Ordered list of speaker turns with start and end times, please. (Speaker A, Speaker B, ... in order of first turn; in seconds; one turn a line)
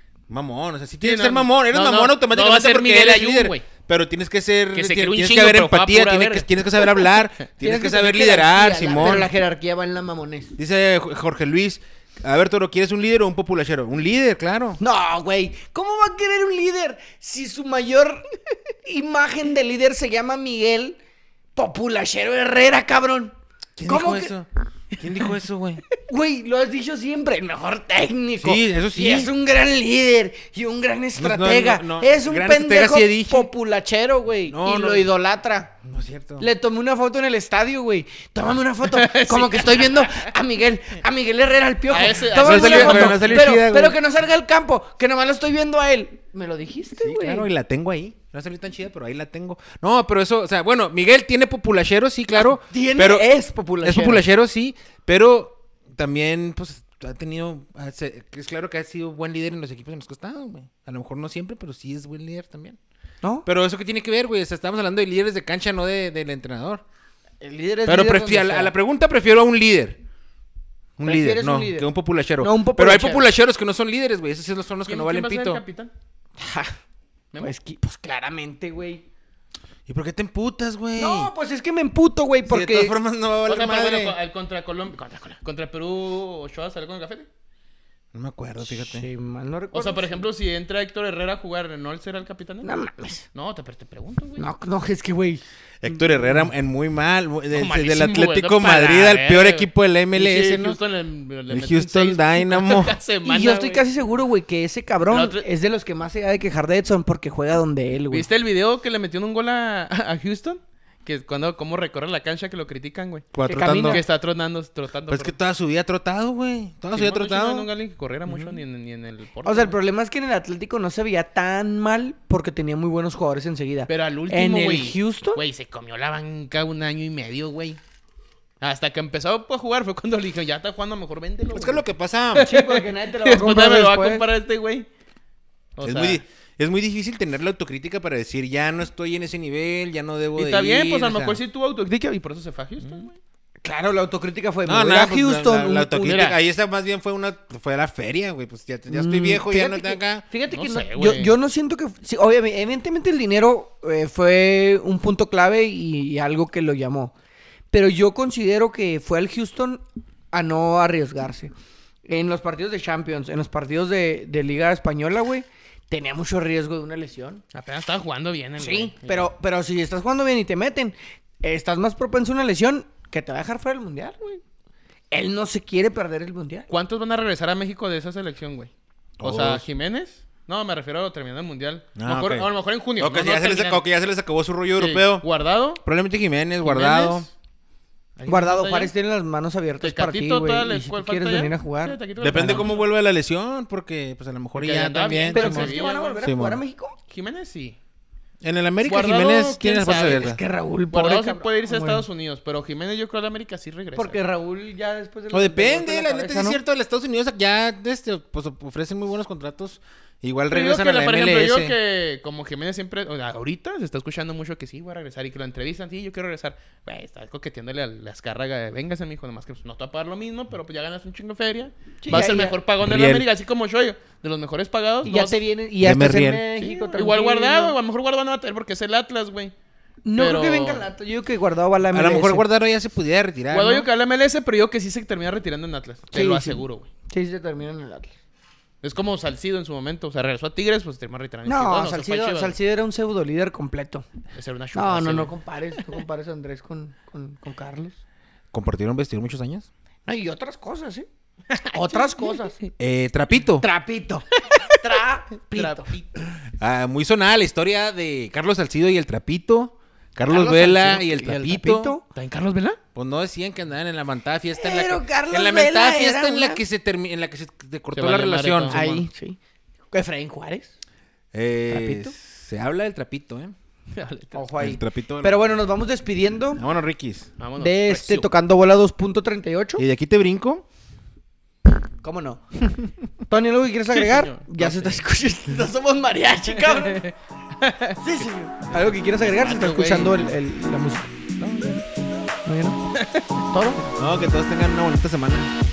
Speaker A: 0.3-9.3
Speaker B: 1.0-3.6
Speaker B: 4.7-7.2
Speaker C: 7.6-10.6
Speaker A: 10.6-14.8
Speaker C: 14.8-18.2
Speaker C: 18.8-21.0
Speaker C: 21.6-23.3
Speaker A: 23.8-25.8
Speaker C: 23.9-24.4
Speaker C: 26.0-35.7
Speaker A: 28.4-29.3
Speaker A: 31.1-33.5
Speaker A: 34.5-35.1
Speaker A: 35.8-36.5
Speaker C: 36.4-47.5
Speaker B: 38.9-40.3
Speaker B: 41.9-43.4
Speaker A: 42.3-44.0
Speaker A: 47.0-53.3
Speaker C: 52.6-54.2
Speaker A: 53.8-62.8
Speaker A: 63.4-66.8
Speaker C: 67.4-68.7
Speaker A: 67.8-70.0
Speaker A: 71.0-75.6
Speaker C: 71.0-73.3
Speaker B: 74.9-75.9
Speaker C: 76.4-76.7
Speaker C: 77.4-79.0
Speaker A: 79.9-81.3
Speaker C: 81.0-83.0
Speaker A: 82.5-84.2
Speaker B: 83.4-87.3
Speaker A: 88.1-89.1
Speaker C: 88.6-90.1
Speaker B: 89.7-92.7
Speaker C: 92.6-93.2
Speaker B: 93.3-94.5
Speaker C: 94.4-95.4
Speaker A: 95.8-100.8
Speaker C: 95.9-96.4
Speaker B: 97.5-103.9
Speaker A: 101.5-103.0
Speaker C: 103.2-108.3
Speaker B: 105.1-105.5
Speaker B: 108.1-115.3
Speaker A: 113.3-114.0
Speaker C: 113.4-114.0
Speaker A: 115.1-117.7
Speaker B: 116.9-119.8
Speaker A: 118.3-118.6
Speaker C: 119.4-125.4
Speaker B: 123.9-127.8
Speaker B: 128.6-134.9
Speaker A: 131.5-132.5
Speaker C: 132.4-134.3
Speaker B: 135.8-136.2
Speaker A: 135.8-141.4
Speaker B: 140.3-143.2
Speaker C: 143.6-146.2
Speaker A: 144.7-150.2
Speaker B: 146.0-146.4
Speaker C: 148.9-157.1
Speaker B: 150.5-151.3
Speaker C: 157.7-161.5
Speaker C: 162.1-167.4
Speaker B: 167.5-169.3
Speaker C: 168.6-174.4
Speaker C: 175.1-176.7
Speaker B: 176.7-178.7
Speaker A: 179.2-179.6
Speaker B: 179.2-183.8
Speaker A: 181.9-185.2
Speaker B: 184.8-185.8
Speaker A: 185.8-187.3
Speaker B: 186.6-187.3
Speaker B: 188.2-188.9
Speaker C: 188.3-192.7
Speaker B: 189.8-192.9
Speaker A: 192.2-196.6
Speaker B: 194.6-196.3
Speaker C: 195.3-196.9
Speaker B: 197.1-197.8
Speaker A: 198.4-200.4
Speaker B: 198.8-200.3
Speaker C: 200.0-202.0
Speaker B: 200.9-204.2
Speaker C: 203.9-206.6
Speaker A: 205.3-211.7
Speaker B: 210.5-225.4
Speaker C: 222.0-222.6
Speaker A: 222.8-223.3
Speaker C: 225.0-227.7
Speaker A: 225.8-226.4
Speaker B: 226.6-229.5
Speaker C: 230.0-232.4
Speaker B: 230.2-230.9
Speaker A: 231.9-233.9
Speaker B: 233.5-236.9
Speaker C: 236.1-238.1
Speaker B: 238.8-242.6
Speaker C: 241.4-244.0
Speaker B: 244.3-245.8
Speaker C: 244.7-247.9
Speaker A: 248.5-249.7
Speaker C: 250.1-251.1
Speaker B: 251.5-252.7
Speaker C: 251.7-252.6
Speaker A: 252.8-253.7
Speaker C: 253.6-255.9
Speaker B: 255.5-256.3
Speaker A: 256.5-261.9
Speaker C: 260.2-262.0
Speaker B: 262.1-262.8
Speaker A: 262.9-268.8
Speaker C: 264.6-266.6
Speaker B: 267.9-269.1
Speaker C: 268.7-269.4
Speaker C: 269.9-270.8
Speaker A: 271.3-273.5
Speaker C: 271.7-272.1
Speaker B: 273.9-274.5
Speaker C: 274.3-276.6
Speaker A: 274.6-275.5
Speaker A: 276.6-277.3
Speaker B: 277.4-278.3
Speaker C: 277.6-279.8
Speaker A: 279.8-280.6
Speaker C: 282.0-282.4
Speaker C: 283.3-287.0
Speaker B: 283.9-285.0
Speaker B: 286.5-290.3
Speaker C: 288.0-291.8
Speaker C: 292.4-292.8
Speaker B: 292.9-293.4
Speaker C: 293.5-293.8
Speaker A: 293.9-295.5